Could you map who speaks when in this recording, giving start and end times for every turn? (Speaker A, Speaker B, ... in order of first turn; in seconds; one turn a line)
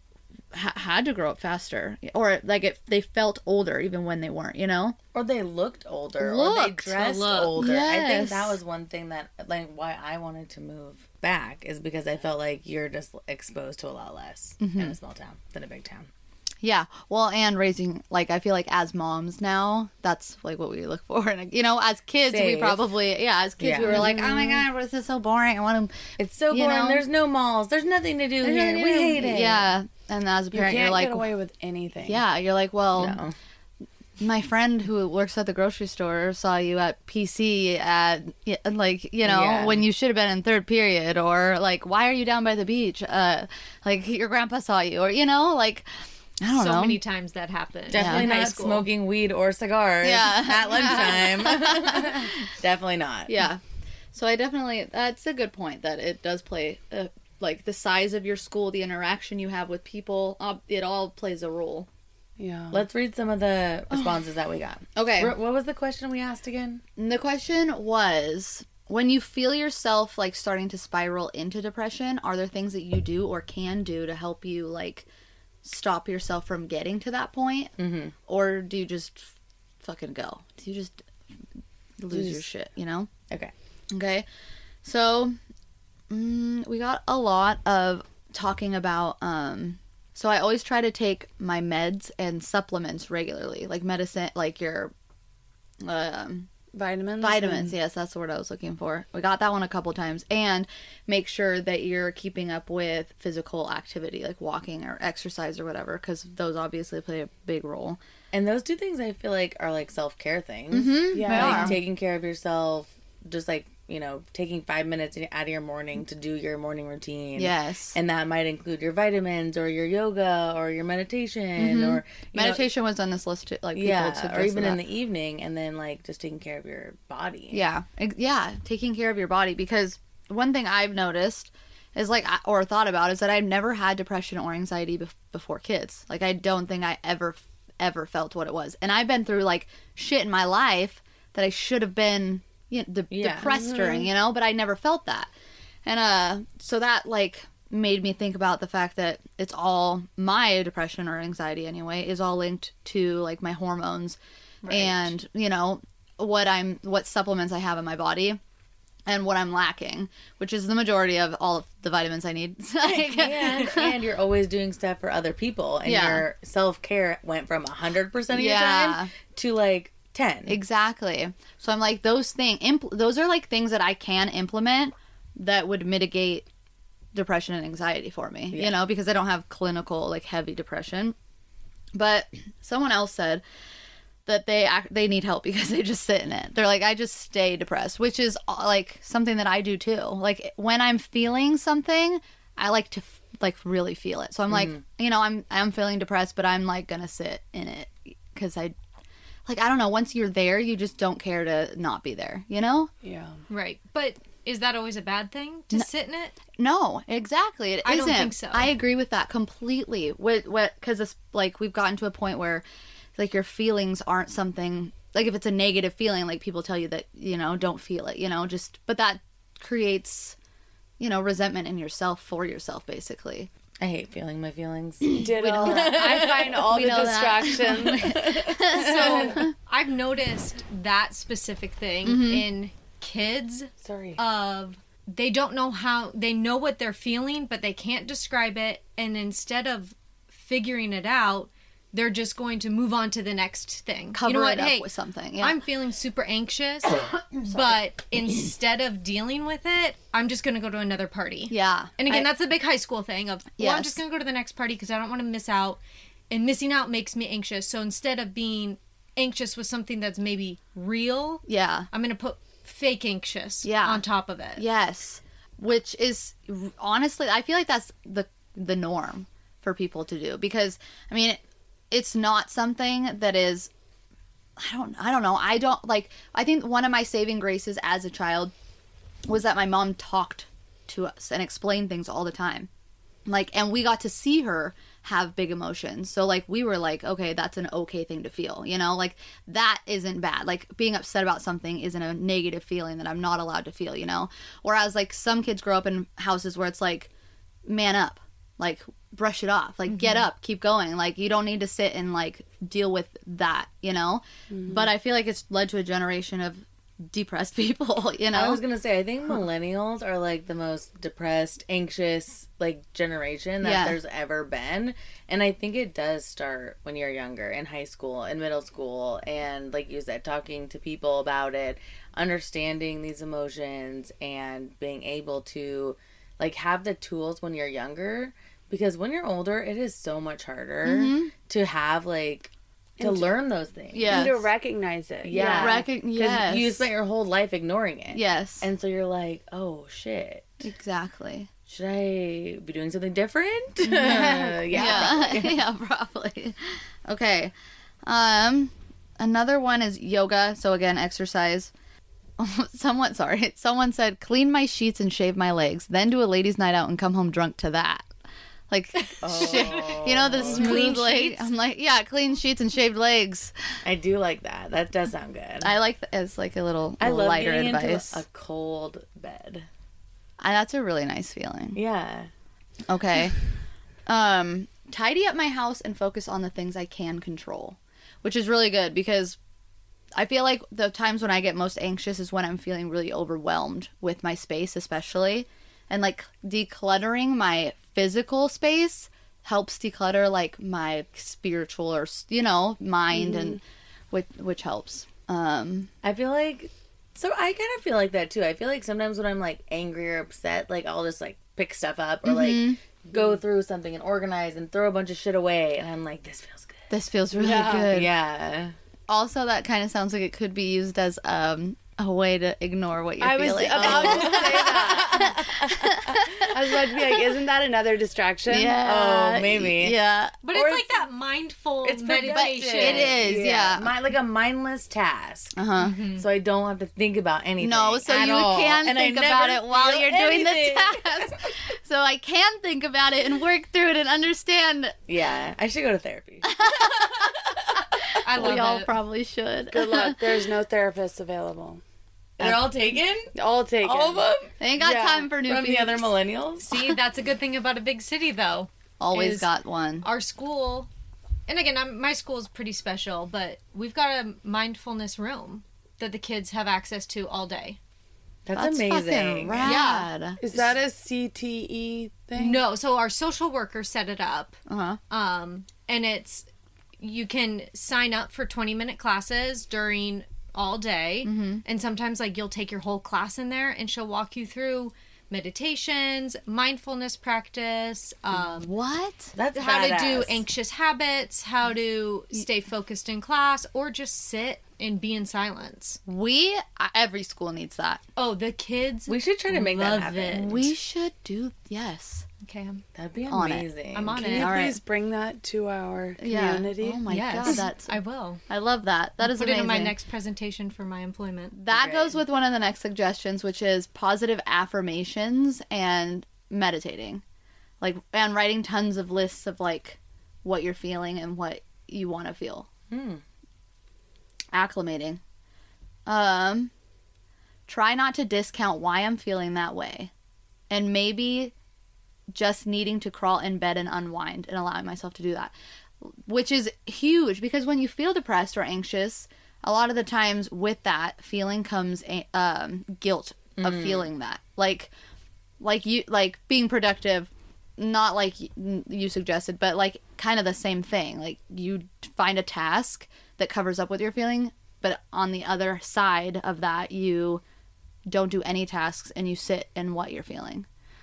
Speaker A: 0.5-5.0
Speaker B: 5.1-16.1
Speaker A: 6.2-8.6
Speaker C: 7.0-7.5
Speaker A: 14.6-15.0
Speaker A: 16.6-27.1
Speaker B: 22.2-22.9
Speaker B: 23.6-24.2
Speaker D: 23.8-24.6
Speaker B: 26.2-29.7
Speaker A: 28.4-31.3
Speaker D: 30.5-32.2
Speaker A: 32.0-33.2
Speaker B: 33.0-33.4
Speaker A: 34.2-45.9
Speaker B: 39.2-39.9
Speaker A: 46.4-47.0
Speaker C: 46.5-48.9
Speaker B: 47.9-53.5
Speaker A: 47.9-48.3
Speaker A: 50.0-52.5
Speaker A: 53.3-53.6
Speaker A: 54.1-61.9
Speaker D: 62.4-62.8
Speaker B: 62.7-66.8
Speaker A: 65.0-65.4
Speaker A: 67.0-75.1
Speaker A: 75.6-77.7
Speaker B: 77.8-78.1
Speaker A: 78.3-81.0
Speaker A: 82.0-83.1
Speaker B: 82.1-82.4
Speaker A: 83.9-84.3
Speaker A: 84.8-85.4
Speaker A: 86.1-94.9
Speaker A: 95.8-96.5
Speaker D: 96.7-97.8
Speaker A: 97.2-108.0
Speaker B: 108.3-122.7
Speaker A: 110.7-111.8
Speaker D: 111.1-111.8
Speaker A: 117.4-118.0
Speaker A: 121.6-124.8
Speaker B: 123.8-127.6
Speaker A: 127.5-145.3
Speaker B: 143.1-143.5
Speaker D: 143.5-144.1
Speaker A: 145.9-158.4
Speaker C: 154.6-155.1
Speaker A: 159.1-164.0
Speaker B: 162.8-170.6
Speaker A: 165.8-166.3
Speaker A: 168.3-169.1
Speaker A: 170.5-176.4
Speaker A: 177.1-181.2
Speaker A: 181.9-183.4
Speaker A: 184.3-198.7
Speaker B: 194.5-194.8
Speaker A: 199.5-202.9
Speaker D: 203.0-203.4
Speaker C: 203.5-206.4
Speaker A: 206.6-212.6
Speaker C: 207.8-208.7
Speaker A: 213.2-220.4
Speaker A: 221.0-223.5
Speaker B: 223.8-229.4
Speaker A: 225.0-229.5
Speaker D: 225.2-228.1
Speaker C: 228.7-244.9
Speaker A: 232.1-232.4
Speaker B: 233.8-234.2
Speaker A: 244.1-245.6
Speaker C: 245.4-264.6
Speaker A: 251.5-252.3
Speaker A: 253.6-254.0
Speaker A: 261.5-261.9
Speaker A: 263.6-264.0
Speaker A: 264.6-271.4
Speaker A: 271.9-273.7
Speaker A: 274.6-278.5
Speaker A: 279.3-282.7
Speaker A: 283.3-297.1
Speaker A: 297.7-308.6
Speaker C: 299.9-300.2
Speaker D: 304.5-304.8
Speaker B: 308.3-334.4
Speaker A: 313.6-314.0
Speaker A: 330.8-331.3
Speaker D: 333.0-333.3
Speaker A: 333.9-334.4
Speaker D: 334.0-336.4
Speaker B: 335.2-340.7
Speaker A: 335.5-336.9
Speaker A: 338.1-338.7
Speaker A: 340.6-341.5
Speaker B: 341.7-345.6
Speaker A: 343.8-347.5
Speaker D: 344.7-345.1
Speaker A: 348.1-351.7
Speaker A: 352.4-358.1
Speaker A: 358.7-363.5
Speaker B: 359.2-361.1
Speaker C: 359.4-361.4
Speaker B: 363.8-365.7
Speaker A: 365.6-368.2
Speaker B: 367.0-369.7
Speaker A: 370.4-371.8
Speaker B: 371.8-372.3
Speaker A: 372.9-373.4
Speaker A: 374.1-379.4
Speaker A: 380.1-395.9
Speaker B: 396.0-406.8
Speaker A: 402.2-402.8
Speaker A: 406.9-408.1
Speaker D: 407.4-407.9
Speaker B: 407.9-408.8
Speaker A: 409.1-416.5
Speaker D: 413.2-415.4
Speaker B: 413.7-416.3
Speaker D: 416.5-418.8
Speaker A: 418.5-420.4
Speaker B: 418.8-420.0
Speaker C: 420.4-423.2
Speaker B: 420.5-421.1
Speaker B: 421.8-425.6
Speaker A: 422.3-423.9
Speaker A: 425.6-426.0
Speaker C: 425.8-426.2
Speaker B: 426.1-431.5
Speaker A: 427.6-435.0
Speaker B: 435.1-437.8
Speaker A: 436.4-440.3
Speaker C: 438.2-438.9
Speaker D: 439.7-441.8
Speaker B: 442.4-446.9
Speaker D: 443.3-444.3
Speaker A: 444.6-446.1
Speaker C: 446.6-449.5
Speaker A: 449.0-450.1
Speaker C: 450.0-450.9
Speaker C: 451.5-457.8
Speaker B: 458.5-459.8
Speaker A: 458.6-460.4
Speaker C: 459.6-460.1
Speaker D: 460.4-462.6
Speaker C: 462.4-464.6
Speaker A: 464.7-465.0
Speaker C: 465.1-466.5
Speaker C: 467.0-478.7
Speaker A: 471.2-471.6
Speaker A: 478.4-479.3
Speaker B: 479.4-480.4
Speaker C: 479.5-486.0
Speaker A: 486.1-488.0
Speaker C: 488.2-490.5
Speaker B: 489.1-490.7
Speaker A: 490.3-492.3
Speaker C: 492.4-492.8
Speaker B: 492.9-494.3
Speaker A: 493.3-493.7
Speaker C: 493.9-494.5
Speaker D: 494.2-497.6
Speaker A: 494.3-494.8
Speaker A: 496.2-498.0
Speaker C: 497.1-498.4
Speaker A: 498.5-499.9
Speaker C: 499.2-501.6
Speaker A: 501.5-507.2
Speaker B: 501.7-502.2
Speaker A: 507.8-512.7
Speaker B: 512.9-513.2
Speaker A: 514.5-515.2
Speaker A: 516.1-516.7
Speaker A: 517.7-520.1
Speaker A: 520.7-521.5
Speaker A: 522.3-534.9
Speaker B: 533.6-534.1
Speaker A: 535.6-547.4
Speaker A: 548.1-550.7